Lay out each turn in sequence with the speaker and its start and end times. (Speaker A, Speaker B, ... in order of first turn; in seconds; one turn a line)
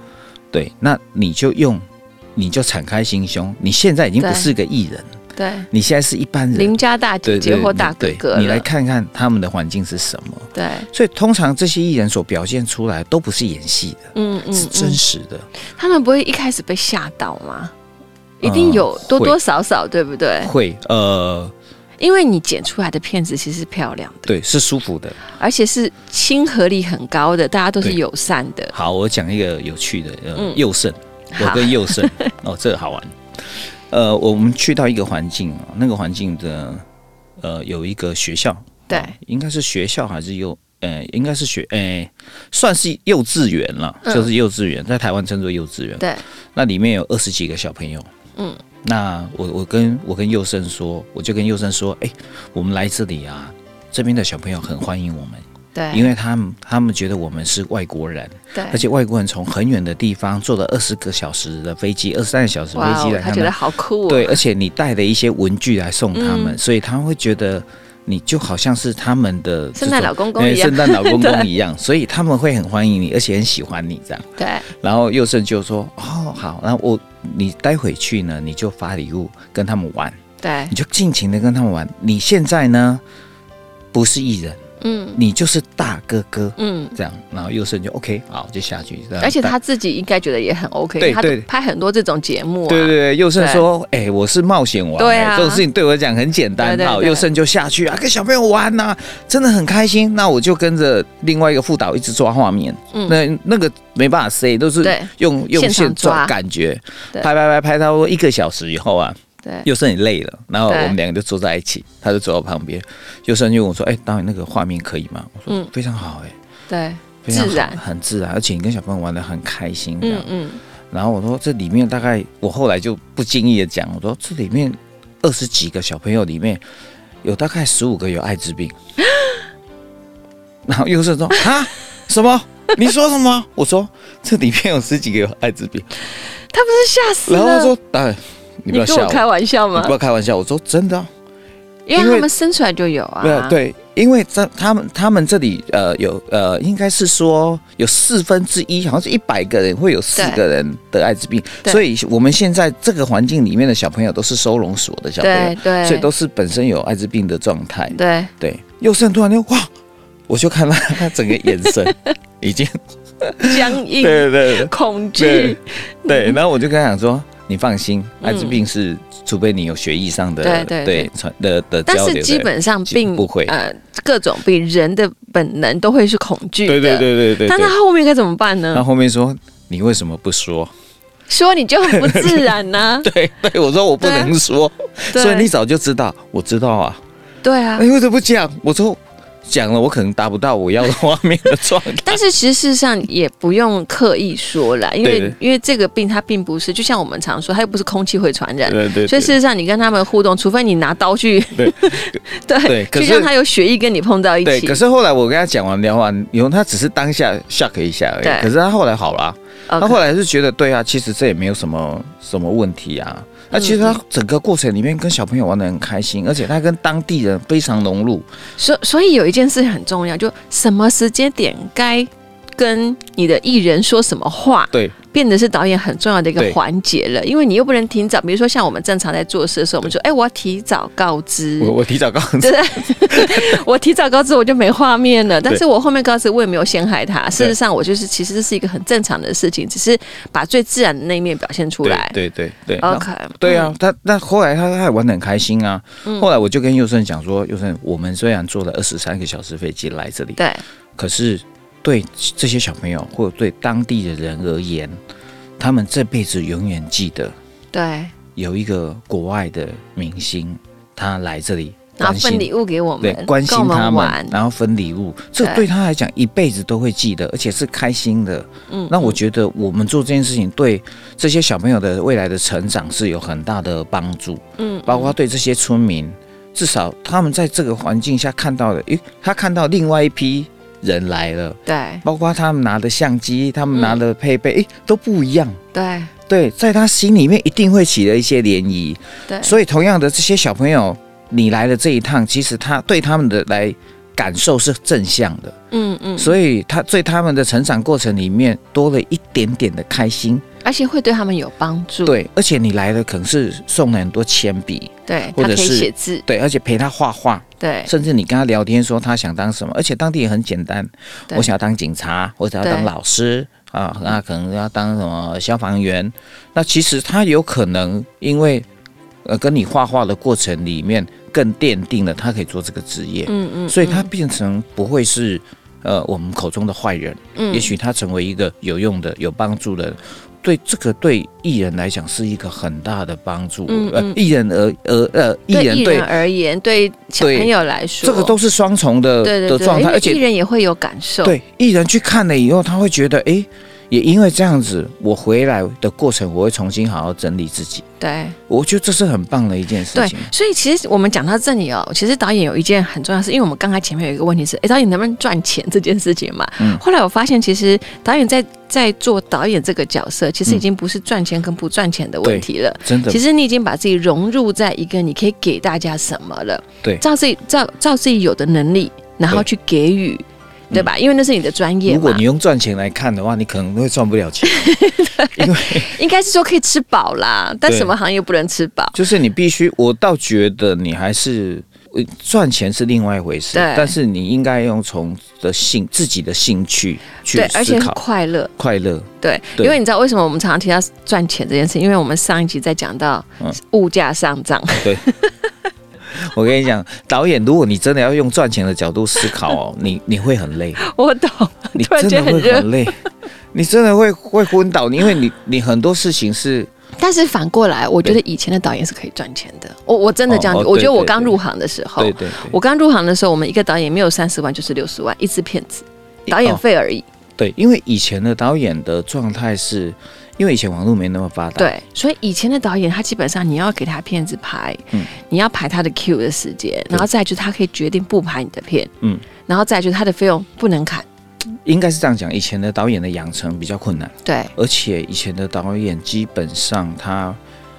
Speaker A: 0.5-5.1
Speaker B: 4.2-4.5
Speaker B: 5.3-5.7
Speaker A: 5.7-15.4
Speaker B: 6.5-8.7
Speaker B: 10.5-10.9
Speaker B: 14.1-15.0
Speaker B: 15.7-17.7
Speaker B: 18.4-20.5
Speaker A: 18.4-19.4
Speaker A: 20.4-21.5
Speaker B: 22.0-24.3
Speaker A: 24.3-25.2
Speaker B: 25.3-28.7
Speaker A: 28.7-36.8
Speaker B: 31.3-32.3
Speaker A: 37.4-48.1
Speaker B: 38.9-39.1
Speaker A: 48.8-63.5
Speaker B: 55.7-56.1
Speaker B: 58.5-58.8
Speaker B: 62.7-64.4
Speaker A: 64.1-80.2
Speaker B: 66.1-66.6
Speaker B: 69.8-71.5
Speaker B: 74.4-74.7
Speaker B: 80.4-80.7
Speaker A: 80.7-83.0
Speaker A: 83.9-84.6
Speaker B: 84.8-85.2
Speaker A: 85.2-89.5
Speaker B: 86.6-87.0
Speaker B: 89.2-93.6
Speaker A: 91.0-91.5
Speaker A: 92.7-116.3
Speaker B: 95.0-95.6
Speaker B: 96.6-97.3
Speaker B: 102.9-103.2
Speaker B: 104.8-106.3
Speaker B: 110.7-111.0
Speaker B: 116.7-117.8
Speaker A: 117.2-120.3
Speaker B: 120.0-120.6
Speaker A: 120.9-126.6
Speaker A: 127.2-128.7
Speaker A: 130.7-135.9
Speaker B: 136.5-137.7
Speaker A: 137.2-141.1
Speaker B: 138.7-139.9
Speaker B: 141.9-143.6
Speaker A: 141.9-142.3
Speaker A: 143.2-159.7
Speaker B: 150.1-150.4
Speaker B: 155.2-156.1
Speaker B: 157.9-158.3
Speaker A: 160.3-173.5
Speaker B: 163.4-166.4
Speaker B: 168.2-168.6
Speaker B: 170.4-171.1
Speaker B: 171.9-178.8
Speaker A: 176.7-177.7
Speaker A: 178.7-180.7
Speaker B: 181.3-183.1
Speaker A: 181.8-187.0
Speaker B: 184.0-184.3
Speaker B: 185.1-185.5
Speaker B: 187.4-187.8
Speaker A: 187.8-192.2
Speaker B: 192.0-204.8
Speaker A: 195.0-195.3
Speaker A: 198.7-199.3
Speaker A: 201.6-203.3
Speaker A: 204.4-218.2
Speaker B: 208.2-208.5
Speaker B: 209.7-210.0
Speaker B: 213.5-214.0
Speaker B: 218.6-231.7
Speaker A: 231.6-233.6
Speaker B: 232.4-242.2
Speaker A: 241.8-250.4
Speaker B: 242.8-243.7
Speaker B: 246.0-246.3
Speaker B: 250.3-250.6
Speaker A: 251.0-254.9
Speaker A: 255.6-257.3
Speaker B: 257.7-258.1
Speaker A: 258.3-262.5
Speaker B: 262.0-264.3
Speaker A: 263.0-285.6
Speaker B: 265.4-265.6
Speaker B: 268.7-269.2
Speaker B: 274.6-275.1
Speaker B: 281.6-282.0
Speaker B: 283.7-284.0
Speaker B: 285.7-286.1
Speaker A: 286.3-295.6
Speaker B: 289.3-289.6
Speaker B: 295.7-296.4
Speaker A: 296.2-300.4
Speaker B: 300.6-302.2
Speaker A: 302.1-318.7
Speaker B: 305.1-306.2
Speaker B: 307.6-307.9
Speaker B: 312.6-312.9
Speaker A: 319.2-336.1
Speaker B: 323.2-324.1
Speaker B: 327.4-327.7
Speaker B: 333.7-334.2
Speaker B: 335.5-338.3
Speaker A: 337.2-337.5
Speaker A: 338.0-340.2
Speaker B: 339.2-341.4
Speaker A: 341.2-347.9
Speaker B: 348.0-348.4
Speaker A: 348.5-350.3
Speaker B: 349.9-372.2
Speaker A: 362.2-363.2
Speaker A: 371.9-375.9
Speaker B: 374.4-379.0
Speaker A: 377.7-377.9
Speaker A: 378.9-388.0
Speaker B: 383.5-383.9
Speaker B: 387.3-388.5
Speaker A: 388.6-389.8
Speaker B: 389.2-395.3
Speaker A: 396.1-400.8
Speaker B: 400.8-402.9
Speaker A: 401.7-403.0
Speaker A: 403.5-406.7
Speaker B: 407.0-417.1
Speaker A: 410.3-411.4
Speaker A: 412.0-412.5
Speaker A: 416.3-416.6
Speaker A: 417.4-421.7
Speaker B: 421.6-428.9
Speaker B: 429.4-431.1
Speaker A: 431.5-437.4
Speaker B: 434.2-434.5